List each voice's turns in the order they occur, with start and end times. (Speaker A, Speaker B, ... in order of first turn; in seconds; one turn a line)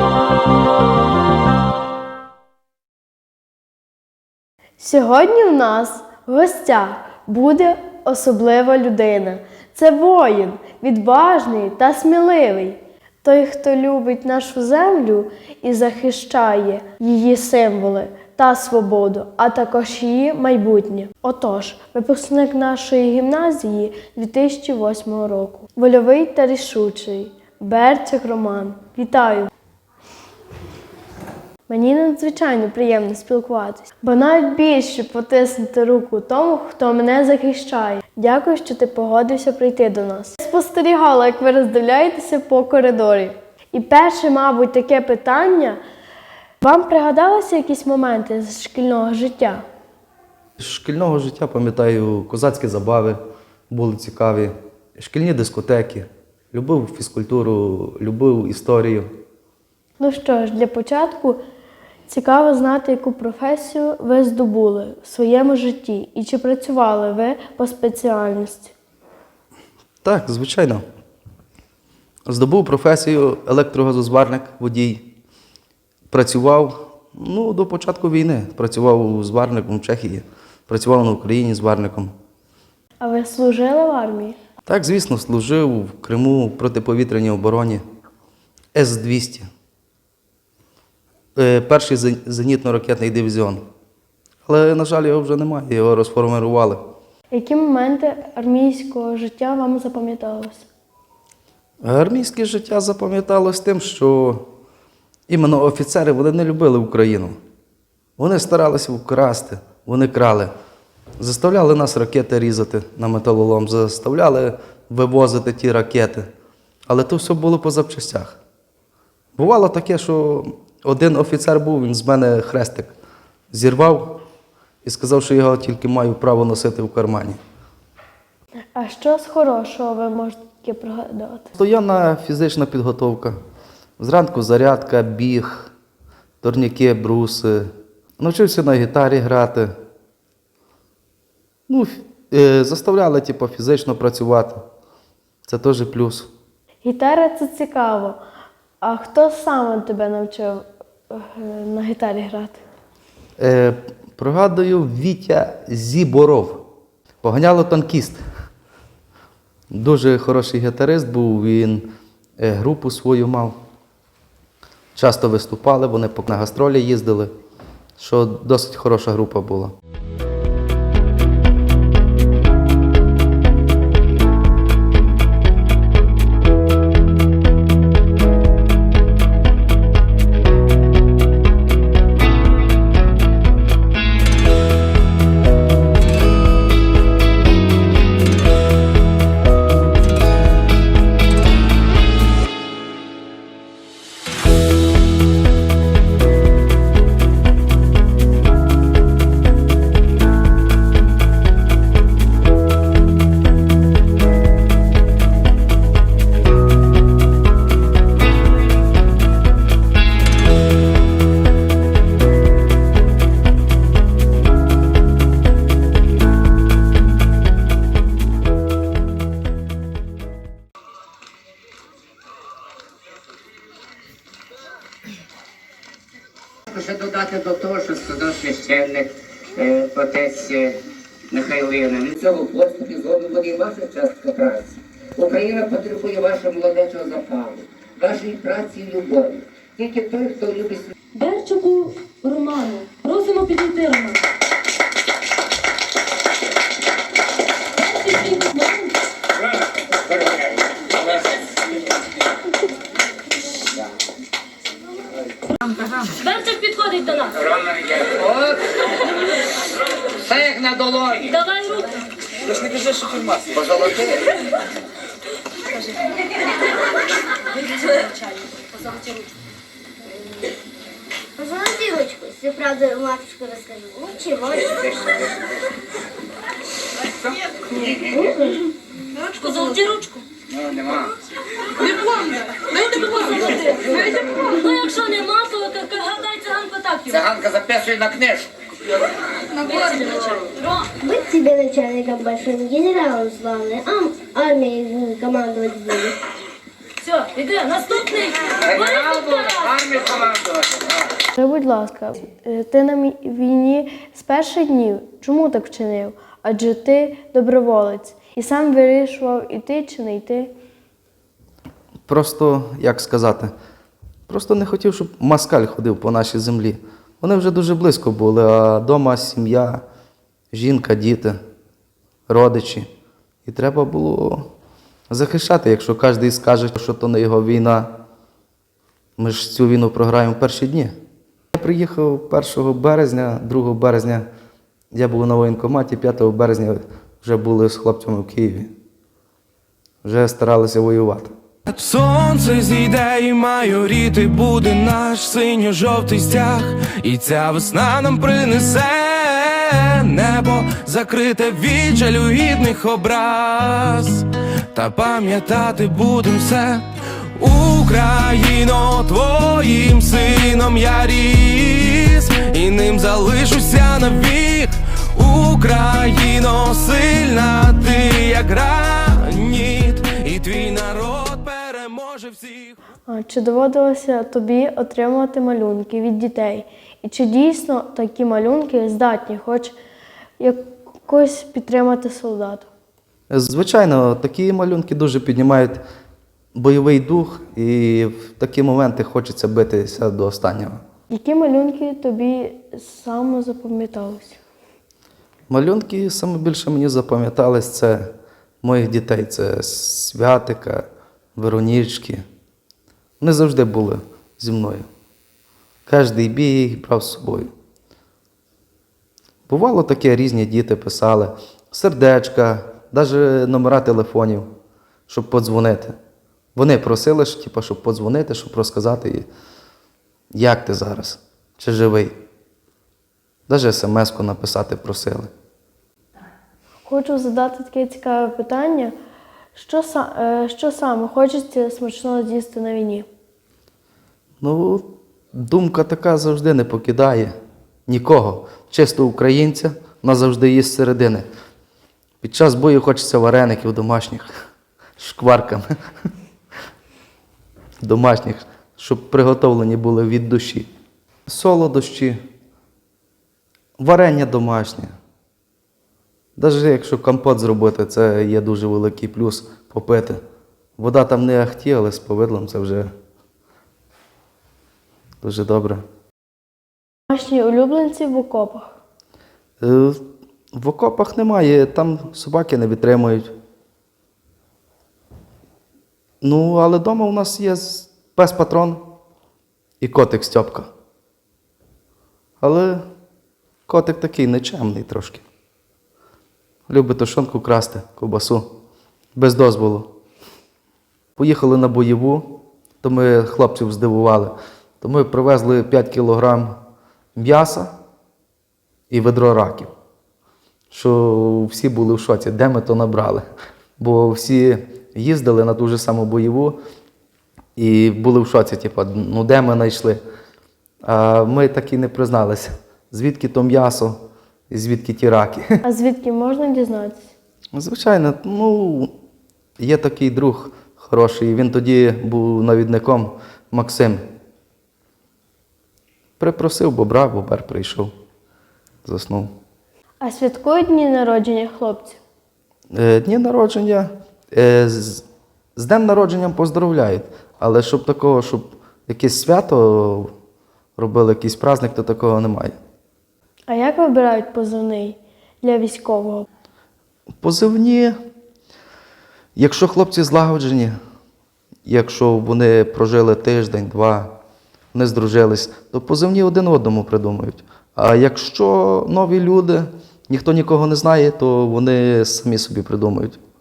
Speaker A: 4.8-29.5
Speaker A: 31.7-45.8
Speaker A: 46.6-49.6
Speaker B: 50.6-53.2
Speaker B: 53.7-59.1
Speaker A: 60.0-61.4
Speaker A: 62.1-68.7
Speaker B: 70.0-70.8
Speaker B: 72.3-75.1
Speaker B: 76.1-82.1
Speaker A: 83.0-84.3
Speaker B: 84.7-87.8
Speaker B: 88.8-89.5
Speaker B: 91.4-93.6
Speaker B: 94.5-96.8
Speaker A: 97.3-100.7
Speaker B: 101.8-104.5
Speaker B: 105.3-107.4
Speaker B: 108.2-110.5
Speaker B: 111.2-116.3
Speaker B: 116.9-118.4
Speaker B: 119.4-122.9
Speaker B: 123.5-124.2
Speaker B: 124.8-127.4
Speaker A: 128.8-131.5
Speaker B: 131.5-133.4
Speaker B: 134.0-135.7
Speaker B: 136.4-139.7
Speaker B: 141.7-144.6
Speaker B: 145.5-146.3
Speaker A: 146.8-148.2
Speaker A: 148.8-152.6
Speaker B: 153.4-156.7
Speaker B: 157.2-158.2
Speaker B: 159.7-161.9
Speaker B: 162.4-163.6
Speaker B: 164.9-167.3
Speaker B: 168.0-169.7
Speaker C: 226.7-228.4
Speaker C: 229.5-229.8
Speaker C: 232.1-240.9
Speaker D: 241.2-244.2
Speaker D: 247.8-249.0
Speaker D: 256.1-257.5
Speaker C: 257.6-258.7
Speaker C: 260.2-261.4
Speaker D: 261.3-262.0
Speaker C: 263.1-264.2
Speaker D: 267.9-268.3
Speaker E: 271.4-275.3
Speaker E: 277.8-278.6
Speaker D: 279.3-280.3
Speaker C: 280.6-281.1
Speaker D: 281.9-287.3
Speaker C: 287.2-288.5
Speaker D: 289.6-290.6
Speaker E: 291.0-296.2
Speaker D: 297.1-299.9
Speaker C: 299.7-300.8
Speaker A: 301.4-310.5
Speaker B: 312.1-313.5
Speaker B: 314.3-319.8
Speaker B: 320.5-321.4
Speaker B: 322.3-322.9
Speaker B: 323.5-324.5
Speaker B: 325.1-327.9
Speaker B: 329.2-330.9
Speaker B: 331.5-334.3
Speaker B: 334.9-338.7
Speaker B: 340.0-341.3
Speaker F: 341.7-356.9
Speaker F: 357.4-372.8
Speaker A: 373.1-379.8
Speaker A: 380.4-382.7
Speaker B: 383.3-385.8
Speaker B: 386.6-390.8
Speaker A: 391.1-394.4
Speaker B: 395.5-398.1
Speaker B: 398.6-402.2
Speaker B: 403.2-404.9
Speaker B: 405.9-407.5
Speaker B: 409.5-414.5
Speaker B: 415.1-416.0
Speaker B: 416.6-419.3
Speaker B: 420.3-422.1
Speaker B: 423.5-425.3
Speaker A: 426.8-428.9
Speaker A: 429.6-433.1
Speaker B: 434.4-437.3
Speaker B: 437.9-441.3
Speaker B: 442.2-444.5
Speaker B: 445.0-445.7
Speaker B: 447.8-450.7
Speaker B: 451.3-452.2
Speaker B: 453.8-454.9
Speaker B: 456.4-460.2
Speaker B: 460.8-462.9
Speaker B: 465.2-465.8
Speaker A: 467.1-468.7
Speaker B: 469.6-470.0
Speaker B: 470.5-473.3
Speaker B: 476.2-478.9
Speaker B: 479.8-480.7
Speaker B: 482.4-482.9
Speaker B: 483.7-485.2
Speaker B: 486.7-488.5
Speaker B: 489.2-489.9
Speaker B: 491.2-496.6
Speaker B: 497.2-497.7
Speaker B: 498.9-499.7
Speaker B: 500.7-503.2
Speaker B: 503.8-506.6
Speaker B: 507.6-510.0
Speaker B: 510.8-514.0
Speaker B: 514.5-515.5
Speaker A: 515.6-517.1
Speaker B: 517.5-518.9
Speaker B: 519.6-524.0
Speaker B: 526.2-527.9
Speaker B: 528.8-529.3
Speaker A: 530.0-532.0
Speaker B: 532.7-535.0
Speaker B: 535.6-540.1
Speaker B: 540.8-542.6
Speaker A: 543.5-546.3
Speaker B: 547.2-548.0
Speaker B: 549.4-550.7
Speaker B: 551.6-554.1
Speaker B: 554.7-563.2